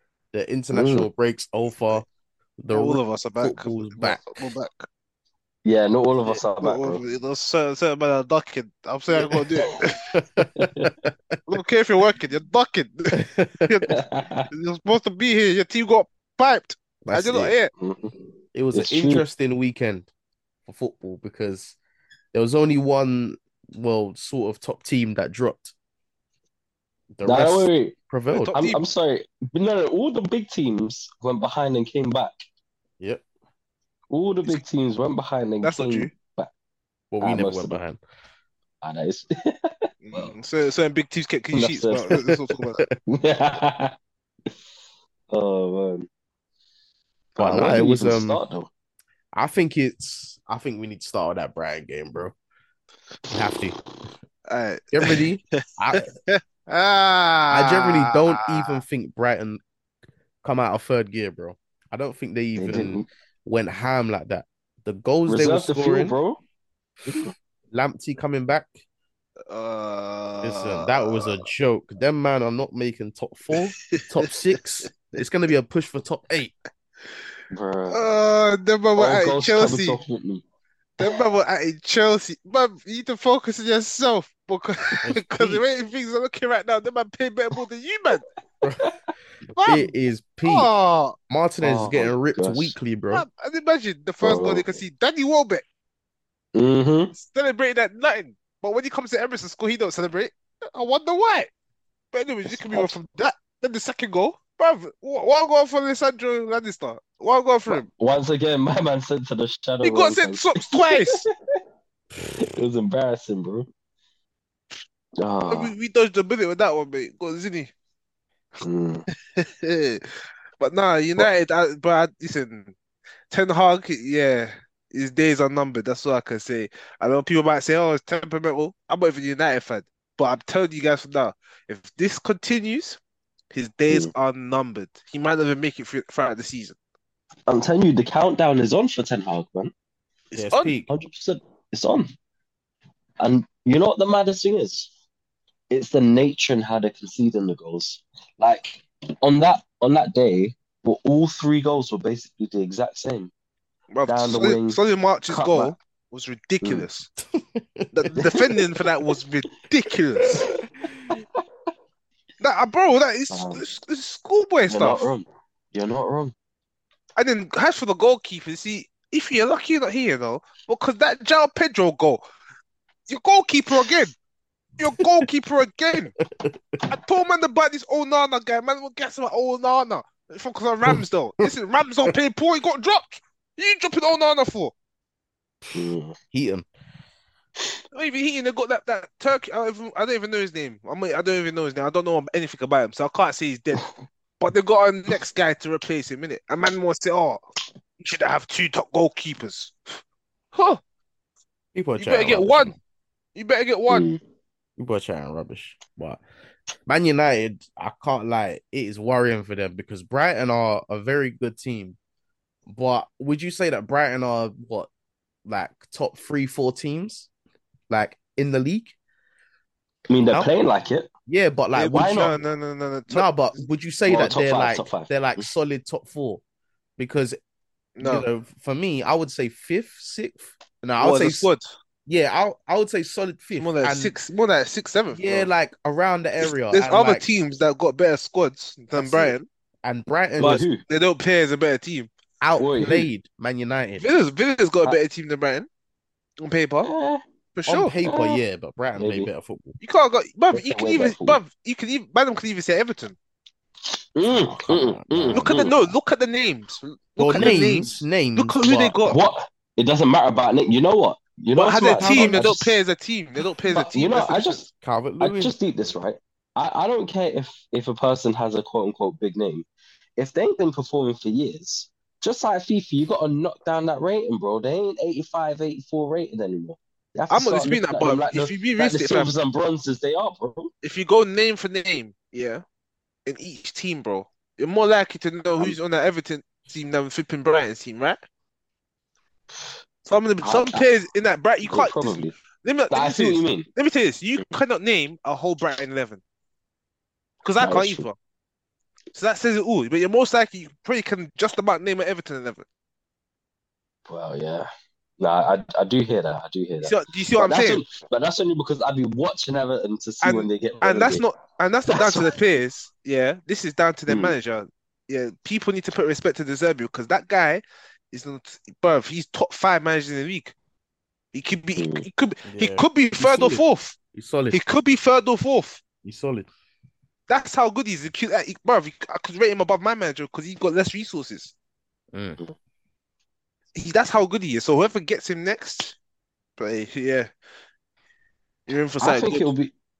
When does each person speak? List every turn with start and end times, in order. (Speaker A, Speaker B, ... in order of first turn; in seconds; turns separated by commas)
Speaker A: 0.3-2.0, Speaker B: 0.7-1.1, Speaker A: 2.6-4.4, Speaker C: 2.7-4.9, Speaker B: 5.6-7.0, Speaker C: 6.3-10.0, Speaker B: 9.3-9.7, Speaker A: 10.1-11.1, Speaker B: 10.5-10.9, Speaker C: 11.5-17.7, Speaker A: 13.2-13.8, Speaker B: 13.9-14.5, Speaker A: 17.0-17.5, Speaker B: 17.8-18.1, Speaker A: 18.5-20.1, Speaker B: 18.7-19.2, Speaker A: 20.7-21.8, Speaker A: 22.3-25.7, Speaker A: 27.1-28.6, Speaker B: 27.2-27.9, Speaker C: 28.3-28.8, Speaker B: 28.5-32.3, Speaker B: 34.1-36.5, Speaker C: 35.6-36.1, Speaker A: 37.1-38.0, Speaker B: 37.2-37.8, Speaker B: 38.8-40.3, Speaker C: 40.0-42.8, Speaker B: 41.5-42.3, Speaker B: 43.0-43.9, Speaker B: 45.3-46.1, Speaker B: 47.4-48.7, Speaker A: 47.4-48.4, Speaker A: 49.3-52.3, Speaker A: 53.3-53.8, Speaker C: 54.5-55.2, Speaker A: 54.9-56.1, Speaker C: 56.0-58.8, Speaker A: 57.5-59.6, Speaker A: 60.4-66.2, Speaker B: 62.5-63.1, Speaker B: 65.3-66.4, Speaker A: 67.7-68.8, Speaker C: 69.5-71.3, Speaker A: 70.4-76.5, Speaker B: 77.5-78.0, Speaker C: 77.9-80.0, Speaker B: 79.0-80.4, Speaker C: 81.0-88.2, Speaker A: 85.0-85.6, Speaker C: 89.5-89.9, Speaker A: 89.6-90.7, Speaker C: 90.5-91.2, Speaker A: 91.3-93.2, Speaker B: 91.6-92.8, Speaker C: 93.1-95.6, Speaker B: 94.2-94.7, Speaker B: 96.5-97.1, Speaker C: 97.1-101.5, Speaker C: 102.1-107.9, Speaker B: 102.4-103.0, Speaker B: 107.7-111.3, Speaker C: 109.8-111.2, Speaker B: 112.2-113.7, Speaker B: 115.2-115.7, Speaker C: 115.5-117.7, Speaker B: 118.6-119.0, Speaker C: 119.4-122.7, Speaker C: 123.3-133.0, Speaker C: 133.5-136.8, Speaker B: 137.5-139.7, Speaker C: 140.3-140.8, Speaker A: 140.3-140.9, Speaker B: 140.9-142.1, Speaker B: 143.2-144.9, Speaker B: 145.7-153.3, Speaker C: 153.9-157.1, Speaker B: 154.1-155.7, Speaker A: 157.3-158.6, Speaker C: 157.9-160.5, Speaker B: 158.2-158.5, Speaker C: 162.4-165.1, Speaker B: 163.3-163.6, Speaker B: 164.7-166.3, Speaker C: 167.2-172.2, Speaker C: 173.1-174.1, Speaker C: 174.8-176.1, Speaker C: 176.9-184.7, Speaker A: 180.9-181.5, Speaker B: 185.7-186.1, Speaker A: 186.3-186.7, Speaker C: 187.9-193.9, Speaker C: 194.4-197.4, Speaker C: 198.0-199.7, Speaker A: 201.7-202.7, Speaker C: 202.0-202.7, Speaker C: 203.3-204.1, Speaker B: 203.9-204.2, Speaker A: 204.8-206.2, Speaker A: 206.9-212.0, Speaker A: 212.7-214.9, Speaker A: 215.4-217.3, Speaker A: 217.9-218.9, Speaker B: 220.1-221.1, Speaker A: 221.3-222.2, Speaker C: 221.8-223.3, Speaker B: 221.9-222.3, Speaker A: 223.1-226.4, Speaker B: 224.1-225.5, Speaker A: 227.0-227.4, Speaker C: 228.0-228.3, Speaker A: 228.0-231.5, Speaker C: 231.0-231.7, Speaker A: 232.1-234.1, Speaker C: 233.6-235.5, Speaker A: 235.1-237.2, Speaker C: 236.4-239.4, Speaker A: 238.9-240.7, Speaker B: 240.4-240.8, Speaker C: 240.4-242.1, Speaker A: 242.4-244.1, Speaker B: 242.6-243.1, Speaker C: 244.0-245.7, Speaker C: 246.4-246.9, Speaker B: 246.8-247.2, Speaker C: 247.6-247.9, Speaker A: 247.7-249.8, Speaker B: 248.0-248.4, Speaker B: 248.9-249.3, Speaker C: 249.8-253.2, Speaker B: 250.5-251.4, Speaker B: 253.9-255.8, Speaker A: 254.3-255.5, Speaker C: 255.3-259.2, Speaker A: 257.2-259.0, Speaker B: 259.0-262.8, Speaker C: 261.5-264.7, Speaker A: 262.0-262.4, Speaker B: 263.6-264.7, Speaker A: 264.8-265.6, Speaker B: 265.2-269.6, Speaker B: 270.2-280.7, Speaker C: 277.3-279.3, Speaker C: 280.8-282.6, Speaker C: 283.2-288.2, Speaker C: 290.0-296.2, Speaker B: 290.4-290.9, Speaker B: 291.6-292.4, Speaker B: 292.9-293.7, Speaker C: 297.4-298.1, Speaker B: 297.6-298.1, Speaker C: 299.1-302.6, Speaker B: 304.1-311.2, Speaker C: 306.8-307.9, Speaker C: 310.2-320.5, Speaker B: 311.9-312.3, Speaker B: 314.1-314.4, Speaker C: 321.3-324.0, Speaker B: 321.8-322.0, Speaker A: 322.4-324.6, Speaker C: 324.5-325.8, Speaker A: 326.0-326.5, Speaker C: 327.3-331.5, Speaker A: 332.1-332.4, Speaker C: 333.7-335.9, Speaker C: 336.6-337.3, Speaker C: 338.7-339.5, Speaker B: 339.0-339.7